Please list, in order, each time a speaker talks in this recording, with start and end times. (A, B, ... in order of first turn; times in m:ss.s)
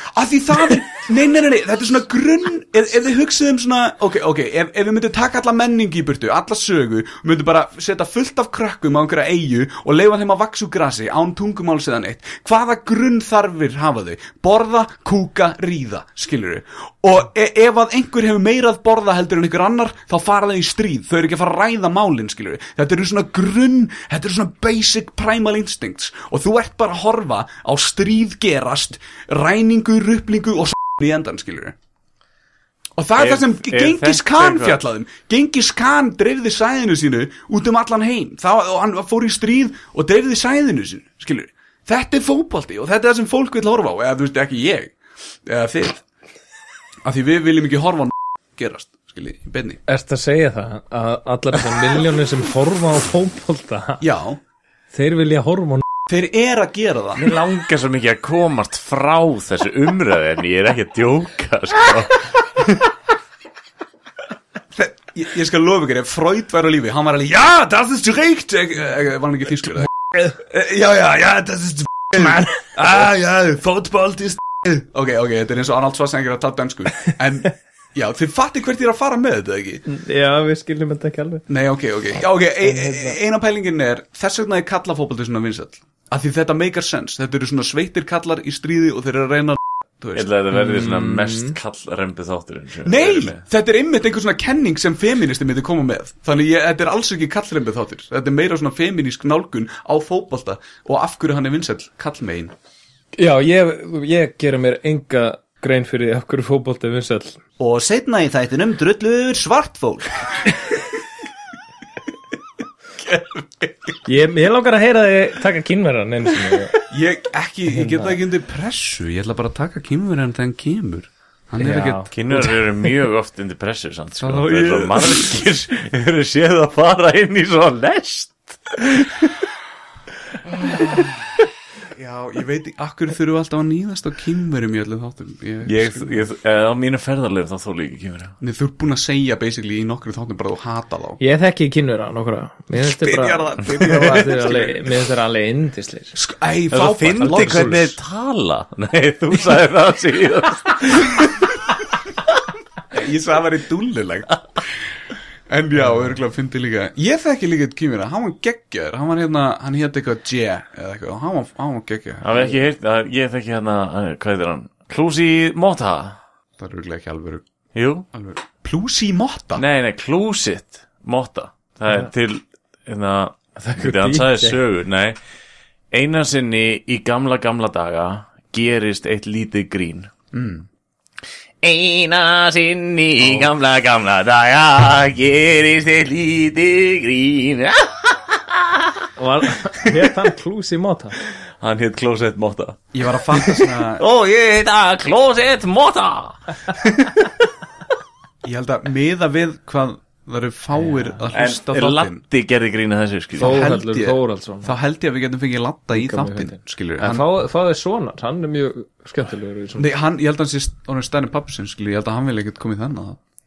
0:00.1-0:31.7 A
0:33.0-0:44.9 A
0:33.2-0:34.8 B
0:45.4-0:46.0 A
0:47.0-0:49.8 A
0:49.9-0:54.0 C
0:54.0-0:54.4 A
0:54.9-0:55.8 C
0:56.1-0:57.3 A
0:57.2-1:02.8 B
1:04.7-1:19.8 A
1:19.8-1:21.4 C
1:21.5-1:30.3 A
1:22.6-1:23.2 C
1:30.1-1:33.4 B
1:30.5-1:31.6 C
1:32.8-1:42.5 A
1:43.2-1:47.4 C
1:47.6-1:50.5 A
1:53.0-1:53.9 A
1:54.0-1:56.8 C
1:56.8-2:02.5 A
1:57.7-1:58.1 C
2:01.6-2:02.1 C
2:02.1-2:09.4 B
2:04.2-2:05.3 A
2:10.4-2:11.3 A
2:11.9-2:16.2 A
2:15.6-2:18.4 B
2:18.4-2:21.2 A
2:21.2-2:26.1 C
2:22.8-2:25.0 A
2:26.1-2:27.9 A
2:26.7-2:31.5 B
2:27.2-2:27.8 C
2:32.9-2:34.7 A
2:35.5-2:42.5 A
2:42.2-2:46.2 B
2:46.6-2:47.4 A
2:47.7-2:48.0 B
2:48.1-2:49.6 A
2:49.6-2:55.2 B
2:53.6-2:54.6 C
2:55.9-3:00.1 B
3:00.3-3:00.6 A
3:01.6-3:09.0 B
3:03.2-3:03.5 A
3:09.2-3:11.2 C
3:11.3-3:17.5 B
3:12.9-3:14.0 A
3:18.4-3:22.2 A
3:21.3-3:23.6 B
3:23.4-3:27.2 A
3:23.4-3:24.7 C
3:25.9-3:29.9 C
3:29.8-3:33.2 A